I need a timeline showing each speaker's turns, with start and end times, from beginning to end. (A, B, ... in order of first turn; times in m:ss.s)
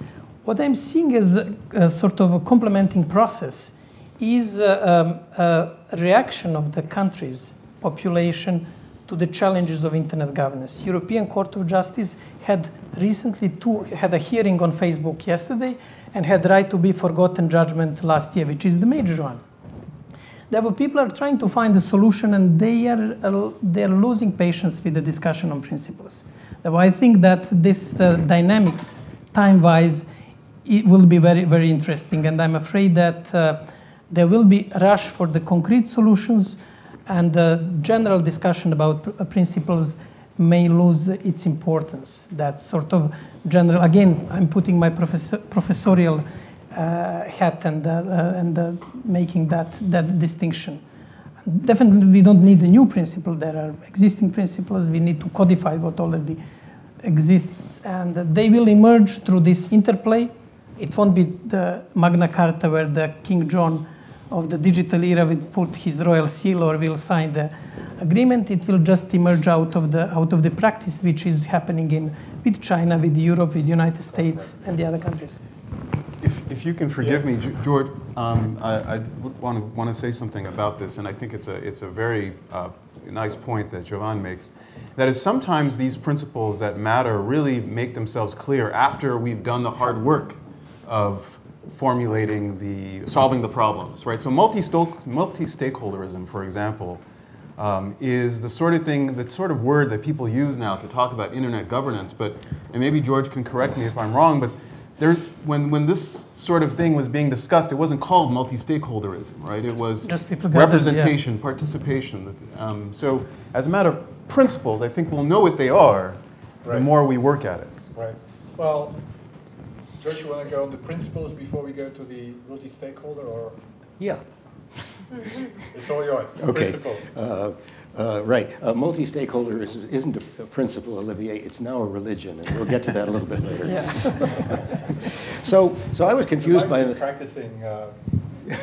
0:00.4-0:19.4 A
0:20.5-0:30.0 A
0:30.6-0:50.8 A
0:51.4-0:56.4 A
0:57.0-1:15.4 A
1:14.1-1:14.5 B
1:16.2-1:37.0 C
1:17.0-1:17.2 B
1:37.6-1:57.7 C
1:50.0-1:51.1 A
1:56.6-1:56.9 B
1:57.9-1:59.0 B
2:00.0-2:03.6 B
2:05.6-2:07.1 B
2:06.4-2:14.4 D
2:13.7-2:14.4 A
2:15.2-2:17.0 D
2:16.4-2:18.0 B